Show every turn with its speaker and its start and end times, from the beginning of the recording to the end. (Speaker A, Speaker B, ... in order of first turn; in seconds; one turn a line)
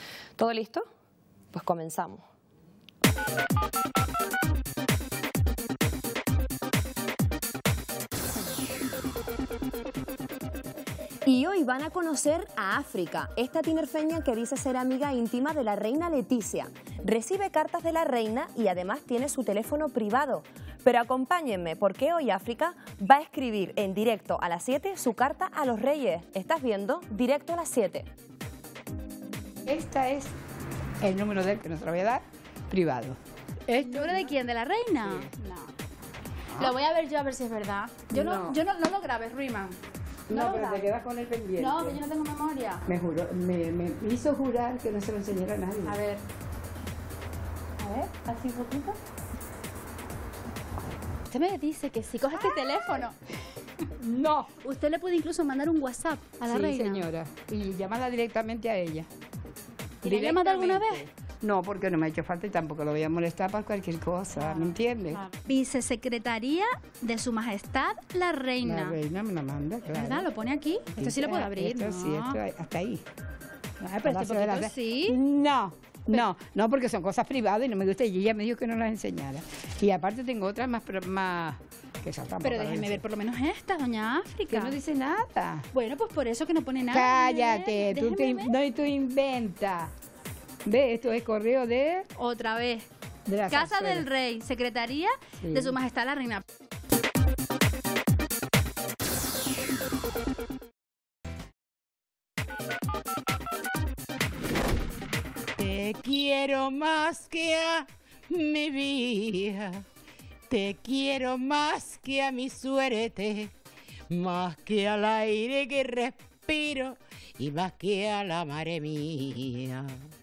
Speaker A: 0.4-0.9
Speaker A: 1.5-2.2
Speaker A: 11.2-28.1
Speaker B: 29.6-30.3
Speaker B: 31.0-33.2
Speaker C: 33.7-35.7
Speaker B: 33.7-34.3
Speaker C: 36.5-39.8
Speaker B: 38.1-38.6
Speaker C: 40.3-40.9
Speaker B: 40.3-42.0
Speaker C: 41.5-42.8
Speaker B: 42.9-46.0
Speaker C: 45.8-46.2
Speaker C: 47.8-49.0
Speaker C: 51.3-53.1
Speaker B: 54.0-54.5
Speaker C: 54.6-57.1
Speaker B: 56.4-59.1
Speaker B: 60.0-65.2
Speaker C: 60.0-61.0
Speaker C: 64.3-69.0
Speaker B: 68.6-70.3
Speaker C: 69.9-72.4
Speaker B: 70.9-73.0
Speaker C: 73.8-75.2
Speaker B: 74.0-83.0
Speaker C: 82.4-84.8
Speaker B: 84.5-85.6
Speaker C: 85.7-88.5
Speaker B: 86.9-89.9
Speaker B: 90.7-92.0
Speaker C: 92.2-92.9
Speaker B: 93.3-94.0
Speaker C: 93.5-96.4
Speaker B: 95.4-95.7
Speaker D: 105.6-109.8
Speaker D: 110.5-113.5
Speaker D: 114.1-120.0